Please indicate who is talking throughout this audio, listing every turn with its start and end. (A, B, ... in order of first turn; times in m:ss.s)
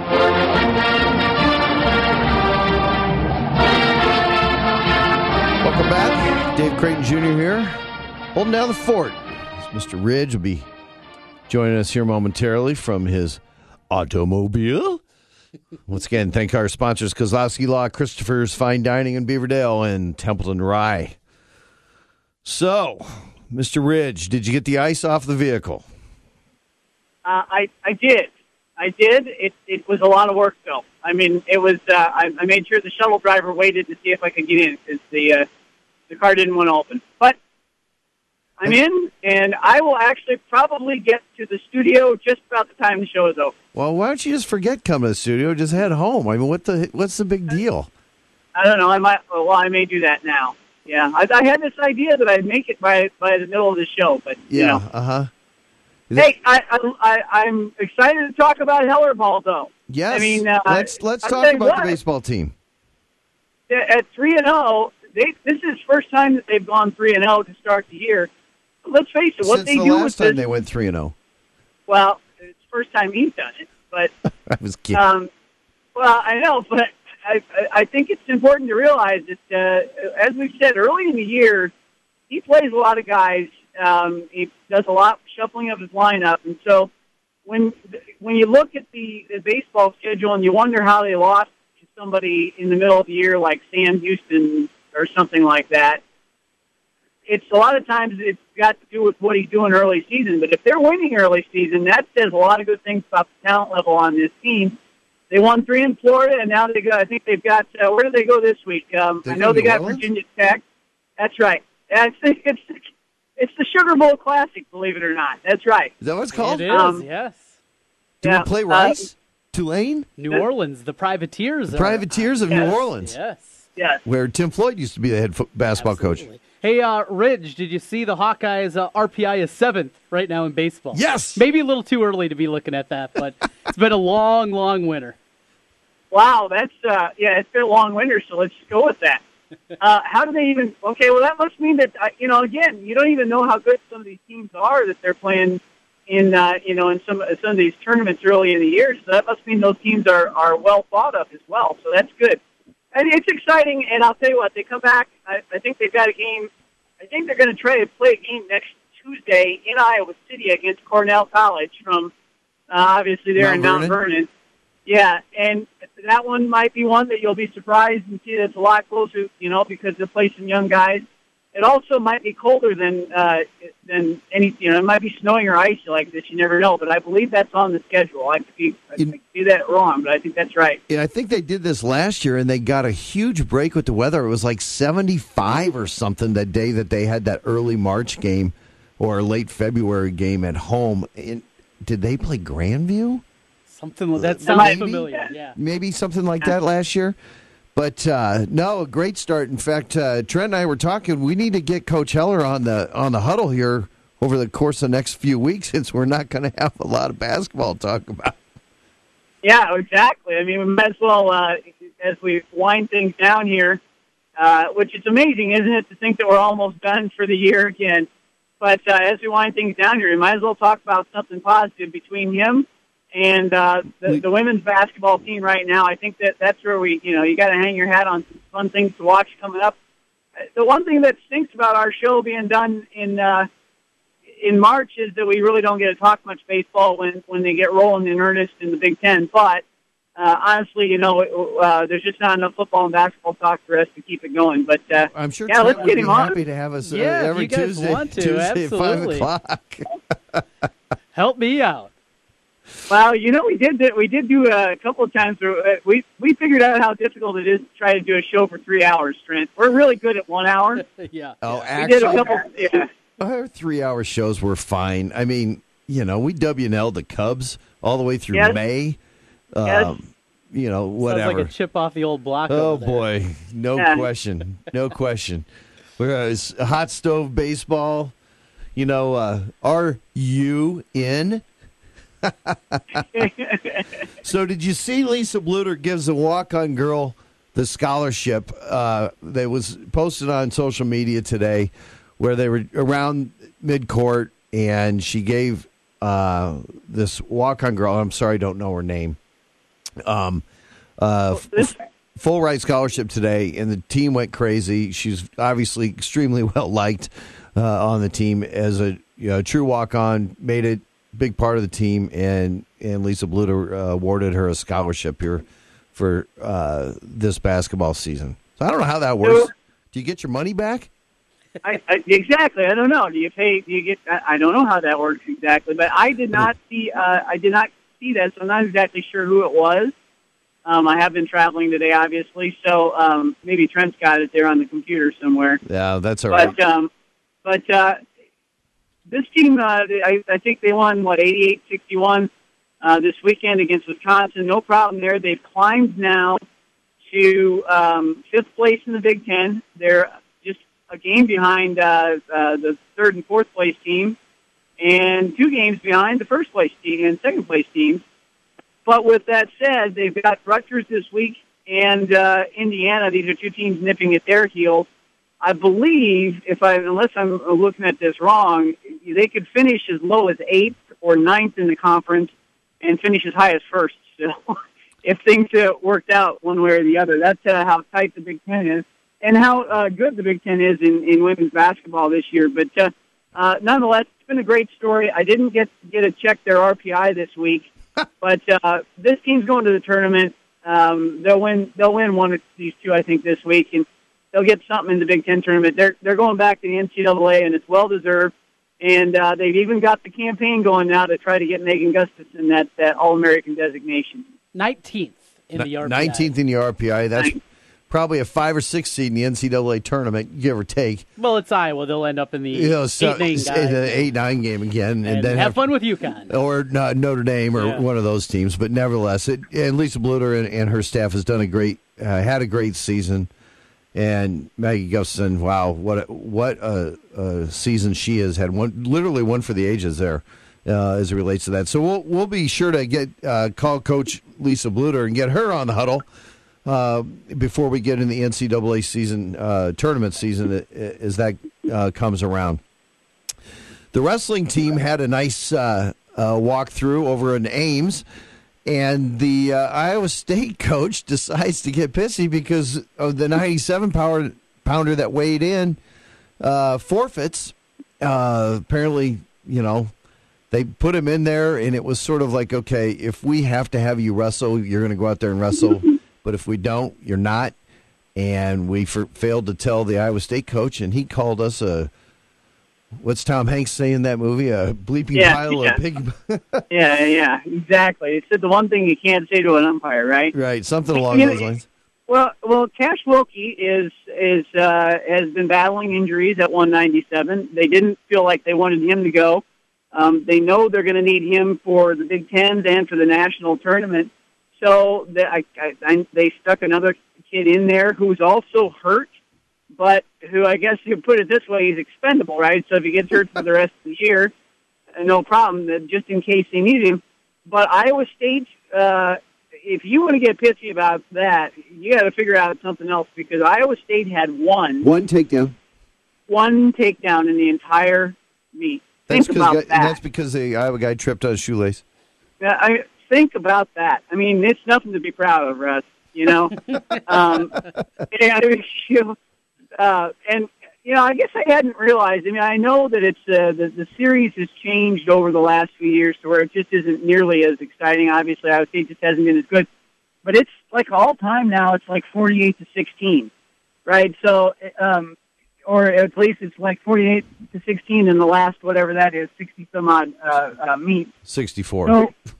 0:05.6-0:07.8 A
0:08.3-0:10.7 A
0:11.5-0:15.0 A
0:15.9-0:21.2 A
0:22.4-0:25.8 A
0:27.2-0:35.4 B
0:36.1-0:37.4 B
0:38.6-0:43.5 B
0:43.7-0:47.9 A
0:48.6-0:54.8 B
0:54.5-0:55.3 A
0:56.1-0:56.4 A
0:56.2-1:01.9 B
0:59.9-1:02.5 A
1:03.7-1:08.3 B
1:08.8-1:10.4 B
1:09.4-1:11.1 A
1:11.9-1:14.1 B
1:14.5-1:15.0 A
1:14.9-1:15.3 B
1:16.0-1:21.7 B
1:22.3-1:26.9 B
1:27.4-1:36.0 B
1:37.3-1:44.8 B
1:45.3-1:50.6 B
1:49.2-1:50.0 A
1:51.2-1:52.8 B
1:53.4-1:55.9 B
1:56.0-1:56.7 A
1:56.3-1:57.5 C
1:56.7-1:57.0 B
1:58.2-2:00.1 A
1:58.2-1:59.0 B
2:00.2-2:03.6 C
2:01.7-2:03.2 A
2:02.5-2:02.8 B
2:04.0-2:06.3 A
2:05.7-2:15.2 C
2:10.9-2:11.4 A
2:16.1-2:19.2 B
2:19.8-2:32.4 B
2:32.9-2:36.5 B
2:37.0-2:42.1 B
2:42.7-2:44.3 B
2:43.4-2:44.0 A
2:44.8-2:51.0 B
2:51.5-3:00.8 B
3:00.9-3:13.2 A
3:13.7-3:15.5 C
3:14.2-3:17.2 A
3:14.4-3:15.3 B
3:17.7-3:28.4 A
3:29.4-3:33.8 B
3:34.4-3:38.1 B
3:38.6-3:49.8 B
3:50.5-3:53.5 B
3:54.4-3:59.6 B
4:00.2-4:06.4 B
4:05.1-4:10.4 A
4:06.8-4:09.3 C
4:11.1-4:11.9 C
4:12.9-4:20.8 B
4:20.8-4:22.3 C
4:21.4-4:22.5 A
4:21.8-4:22.9 B
4:23.2-4:29.0 A
4:28.3-4:28.6 B
4:29.5-4:31.5 A
4:29.6-4:29.9 B
4:31.0-4:33.1 C
4:32.5-4:35.4 A
4:33.8-4:34.0 B
4:36.0-4:38.1 A
4:38.7-4:41.4 A
4:42.2-4:43.0 A
4:43.1-4:43.8 B
4:44.2-4:59.2 A
5:00.0-5:00.4 A
5:01.0-5:20.9 A
5:01.3-5:01.8 B
5:19.2-5:19.5 B
5:21.6-5:29.9 B
5:30.6-5:35.6 B
5:35.6-5:36.5 A
5:36.3-5:36.9 B
5:37.4-5:38.0 B
5:39.1-5:42.3 B
5:42.8-5:46.4 B
5:47.1-5:54.2 B
5:54.8-5:58.0 B
5:58.8-6:04.9 B
6:05.4-6:27.7 B
6:28.2-6:44.2 B
6:44.5-6:46.3 C
6:45.5-6:47.4 A
6:47.9-6:51.0 A
6:51.2-6:54.1 C
6:52.5-6:55.6 A
6:55.0-6:56.3 C
6:56.3-7:03.3 A
6:57.5-6:57.8 C
7:03.9-7:16.0 A
7:16.6-7:22.6 A
7:23.9-7:28.0 A
7:28.6-7:35.8 A
7:36.4-7:39.9 A
7:40.5-7:47.5 A
7:48.2-7:51.9 A
7:53.0-7:56.6 A
7:55.1-7:55.8 B
7:56.7-8:00.3 B
8:00.3-8:01.7 A
8:01.0-8:01.4 B
8:02.1-8:19.1 B
8:19.8-8:24.3 B
8:25.0-8:34.9 B
8:34.8-8:35.5 A
8:36.3-8:40.0 B
8:39.1-8:41.8 A
8:42.4-8:47.6 B
8:48.1-8:49.2 B
8:49.8-8:59.7 B
9:00.2-9:03.3 B
9:03.8-9:05.2 B
9:05.7-9:11.1 B
9:11.2-9:12.1 A
9:11.8-9:12.1 B